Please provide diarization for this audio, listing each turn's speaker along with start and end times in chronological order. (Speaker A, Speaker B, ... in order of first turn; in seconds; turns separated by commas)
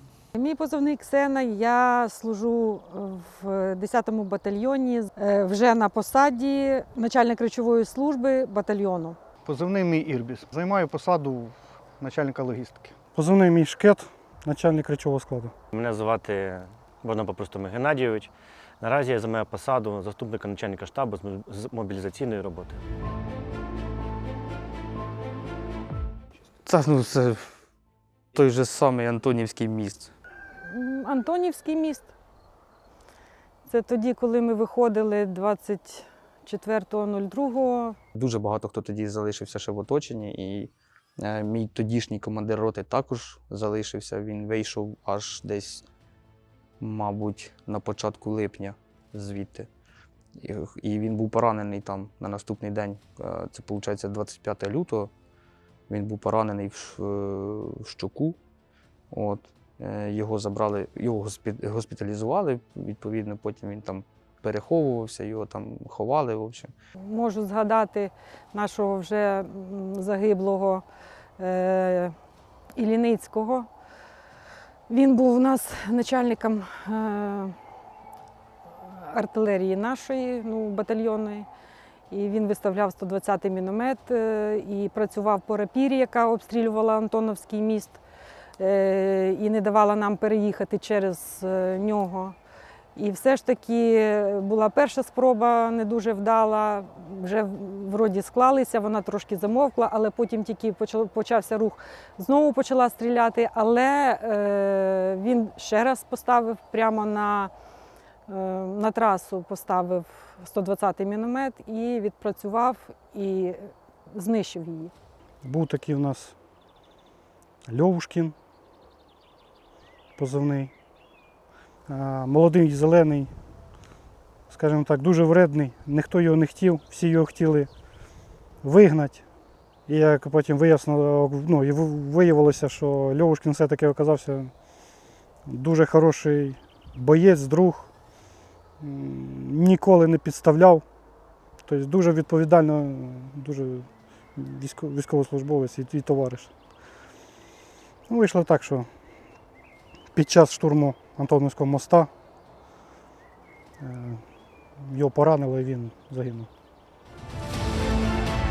Speaker A: 0.3-9.2, Speaker B: 9.4-12.9, Speaker C: 13.1-15.5, Speaker D: 15.7-22.8, Speaker E: 26.6-27.4, Speaker E: 28.3-30.1, Speaker A: 30.6-32.1, Speaker A: 33.6-38.0, Speaker E: 38.1-45.9, Speaker E: 46.8-49.7, Speaker E: 50.4-55.1, Speaker E: 55.9-58.4, Speaker E: 59.1-66.7, Speaker A: 67.0-70.8, Speaker A: 71.4-72.1, Speaker A: 72.7-73.7, Speaker A: 74.9-77.5, Speaker A: 78.8-81.5, Speaker A: 82.1-88.0, Speaker A: 88.6-92.3, Speaker A: 92.9-107.5, Speaker A: 108.3-114.9, Speaker C: 115.4-116.3, Speaker C: 117.7-118.3, Speaker C: 120.2-120.7, Speaker C: 121.9-123.3, Speaker C: 124.5-127.7, Speaker C: 128.6-129.2, Speaker C: 129.9-134.5, Speaker C: 135.4-137.9, Speaker C: 138.8-140.8, Speaker C: 141.7-146.5, Speaker C: 148.1-148.9, Speaker C: 150.1-152.1, Speaker C: 153.8-154.2, Speaker C: 154.8-156.5